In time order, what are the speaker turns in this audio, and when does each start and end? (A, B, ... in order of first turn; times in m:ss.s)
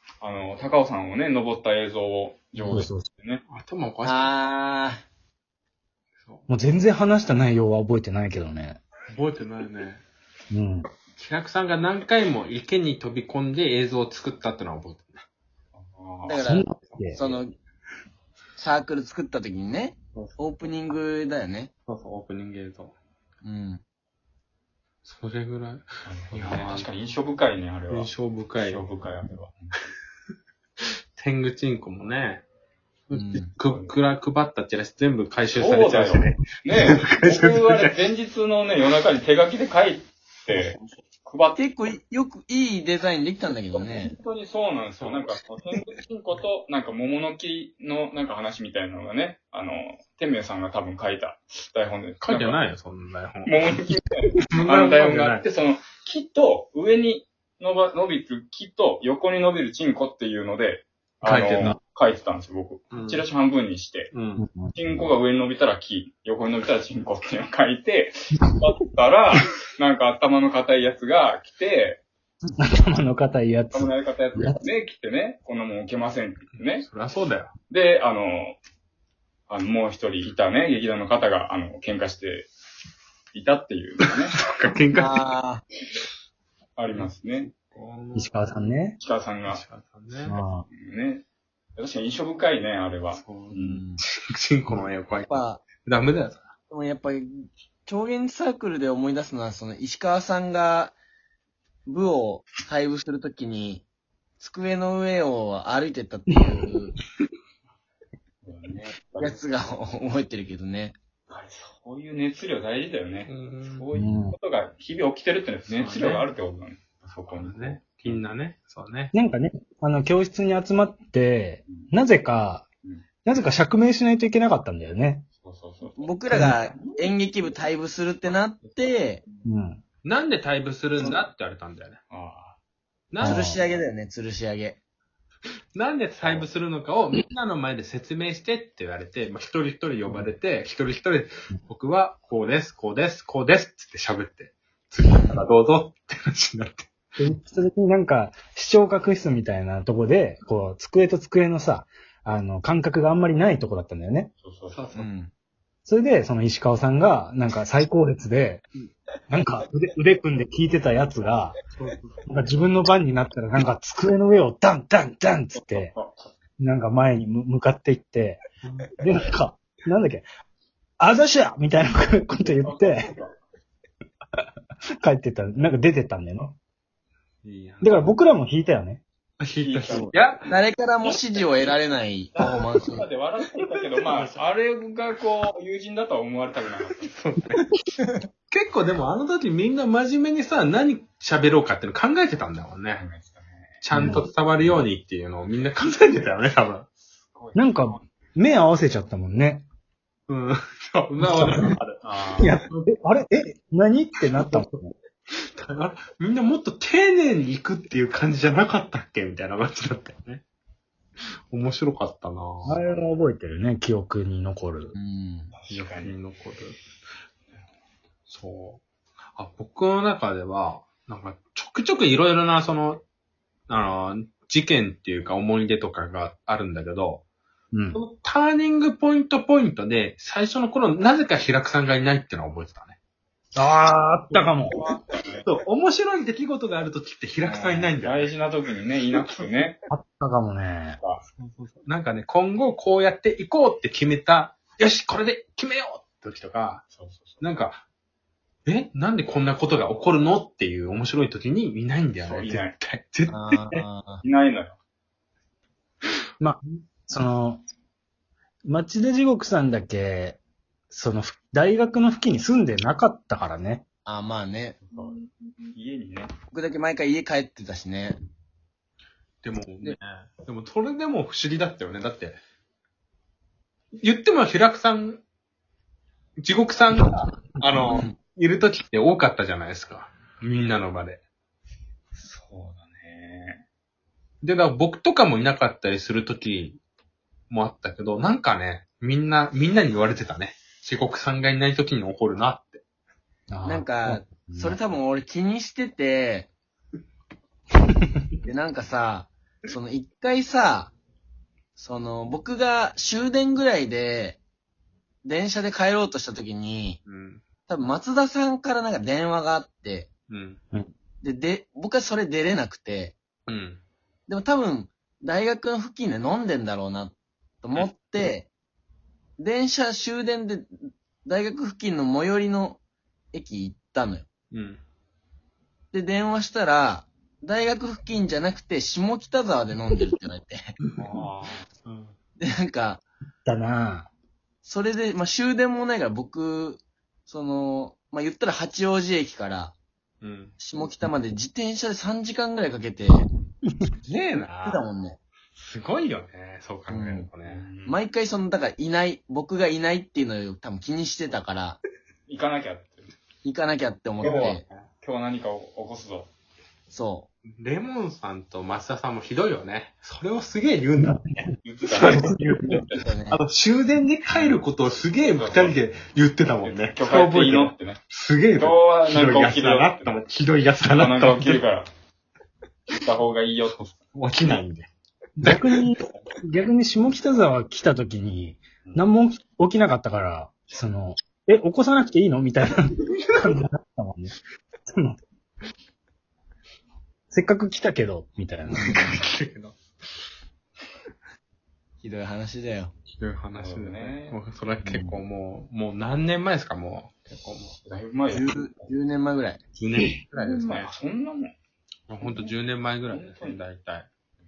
0:00.2-0:03.4 A
0:02.6-0:02.9 B
0:02.7-0:03.1 C
0:03.5-0:04.3 D
0:04.0-0:05.0 B
0:06.2-0:06.4 D
0:06.5-0:08.8 C
0:09.1-0:10.0 D
0:10.5-0:10.9 C
0:11.2-0:15.2 D
0:15.7-0:16.4 A
0:16.2-0:17.5 B
0:16.4-0:17.2 C
0:18.6-0:21.7 B
0:21.9-0:22.9 D
0:23.4-0:23.8 B
0:25.0-0:26.9 D
0:26.0-0:29.8 A
0:27.9-0:28.9 D
0:31.2-0:32.4 D
0:33.1-0:38.0 D
0:33.1-0:33.5 B
0:33.6-0:33.9 A
0:35.5-0:41.6 A
0:40.5-0:40.8 D
0:41.6-0:44.1 B
0:44.0-0:52.6 A
0:45.0-0:45.2 D
0:52.2-0:53.6 D
0:53.4-1:04.1 A
0:54.5-0:55.4 D
1:01.2-1:01.8 D
1:02.9-1:03.2 D
1:04.1-1:04.4 D
1:04.4-1:04.8 C
1:04.7-1:12.0 A
1:12.6-1:14.6 C
1:13.7-1:16.9 A
1:16.8-1:17.5 D
1:17.7-1:18.6 A
1:19.5-1:22.5 A
1:23.3-1:24.4 A
1:24.4-1:25.3 D
1:24.9-1:25.6 B
1:26.8-1:27.5 A
1:27.7-1:28.3 D
1:28.1-1:29.0 C
1:29.0-1:29.6 A
1:29.4-1:30.4 D
1:30.2-1:30.7 C
1:30.7-1:31.2 A
1:31.8-1:33.8 A
1:33.1-1:36.5 D
1:33.6-1:34.0 B
1:35.2-1:35.6 B
1:36.7-1:41.0 B
1:41.8-1:43.8 B
1:44.4-1:46.9 B
1:48.4-1:49.4 A
1:49.1-1:50.9 B
1:51.3-1:58.1 A
1:53.2-1:53.9 D
1:53.9-1:54.4 C
1:55.7-1:56.3 D
1:57.3-1:59.1 D
1:59.1-2:02.7 C
2:03.2-2:05.2 C
2:05.4-2:06.1 A
2:06.0-2:09.2 B
2:06.3-2:06.6 C
2:06.8-2:07.1 A
2:09.4-2:09.8 C
2:10.0-2:12.0 D
2:12.1-2:12.6 A
2:13.1-2:13.5 D
2:13.2-2:13.6 C
2:13.2-2:14.8 B
2:15.7-2:26.9 D
2:27.2-2:34.3 C
2:34.4-2:35.0 A
2:34.7-2:35.0 D
2:35.0-2:35.3 B
2:35.8-2:38.7 C
2:39.3-2:41.6 C
2:41.8-2:42.2 D
2:42.2-2:45.9 C
2:45.5-2:46.3 A
2:46.6-2:48.4 C
2:48.6-2:48.9 D
2:49.0-2:50.2 C
2:51.0-2:53.1 C
2:52.6-2:53.3 A
2:55.0-2:56.6 C
2:57.4-2:58.1 D
2:57.8-2:59.0 C
2:59.4-3:00.5 D
2:59.6-3:00.3 A
3:00.5-3:03.0 B
3:02.4-3:07.1 A
3:04.0-3:04.4 D
3:07.1-3:07.6 D
3:08.5-3:13.0 D
3:13.0-3:13.8 A
3:13.8-3:16.9 D
3:13.9-3:14.2 C
3:17.1-3:18.0 A
3:17.5-3:19.6 C
3:20.3-3:22.8 D
3:21.2-3:21.8 C
3:22.0-3:22.6 A
3:22.4-3:24.9 C
3:25.3-3:30.4 D
3:31.5-3:32.8 D
3:32.6-3:34.9 C
3:34.9-3:35.5 B
3:35.5-3:36.1 A
3:35.7-3:36.8 D
3:38.3-3:38.8 D
3:39.3-3:43.0 D
3:43.7-3:47.2 D
3:47.7-3:48.0 C
3:47.9-3:53.0 D
3:53.5-3:54.8 C
3:54.7-3:55.5 A
3:55.4-3:58.3 D
3:57.4-3:59.8 A
3:59.9-4:01.0 C
4:01.4-4:06.9 D
4:06.9-4:07.4 A
4:07.4-4:07.8 D
4:08.6-4:13.8 D
4:12.2-4:12.7 A
4:13.3-4:14.2 B
4:14.2-4:14.8 A
4:16.4-4:17.6 C
4:18.6-4:23.8 C
4:24.0-4:24.8 B
4:24.9-4:25.2 A
4:25.7-4:26.3 A
4:26.5-4:28.2 B
4:29.4-4:32.4 D
4:34.0-4:35.2 D
4:36.4-4:41.2 D
4:37.9-4:38.1 B
4:42.1-4:43.6 A
4:44.4-4:46.8 D
4:47.5-4:52.8 D
4:53.5-4:54.8 C
4:53.6-4:56.5 B
4:58.4-5:00.9 B
5:01.8-5:04.4 B
5:05.2-5:07.0 B
5:07.0-5:07.4 D
5:07.7-5:10.1 B
5:10.3-5:10.6 D
5:11.2-5:13.2 B
5:13.4-5:13.8 D
5:14.3-5:18.5 B
5:19.4-5:22.8 B
5:23.3-5:24.3 B
5:24.5-5:24.8 D
5:25.9-5:30.6 B
5:31.0-5:31.6 A
5:31.8-5:32.1 D
5:32.4-5:33.0 B
5:33.4-5:34.1 C
5:34.6-5:39.8 B
5:40.2-5:40.5 D
5:40.6-5:43.2 B
5:44.0-5:44.8 D
5:44.6-5:45.2 B
5:45.5-5:47.7 D
5:46.9-5:47.3 B
5:47.4-5:48.0 A
5:47.8-5:51.8 B
5:52.3-5:53.1 A
5:53.4-5:54.6 B
5:54.2-5:54.8 D
5:54.2-5:56.3 A
5:56.9-5:57.3 B
5:57.5-6:11.6 D
6:01.6-6:03.0 A
6:03.0-6:03.4 B
6:05.3-6:05.8 A
6:06.6-6:08.0 A
6:08.5-6:10.1 A
6:10.9-6:11.9 A
6:12.9-6:14.0 A
6:14.1-6:14.9 D
6:15.4-6:24.4 C
6:24.9-6:25.2 C
6:27.3-6:29.0 C
6:28.7-6:29.2 B
6:28.8-6:29.8 D
6:32.0-6:32.9 B
6:33.1-6:37.8 D
6:33.5-6:34.4 A
6:34.8-6:35.2 B
6:37.8-6:38.9 A
6:38.3-6:39.6 B
6:39.8-6:41.0 D
6:40.3-6:41.5 A
6:42.1-6:44.1 D
6:42.2-6:42.5 A
6:43.1-6:43.6 A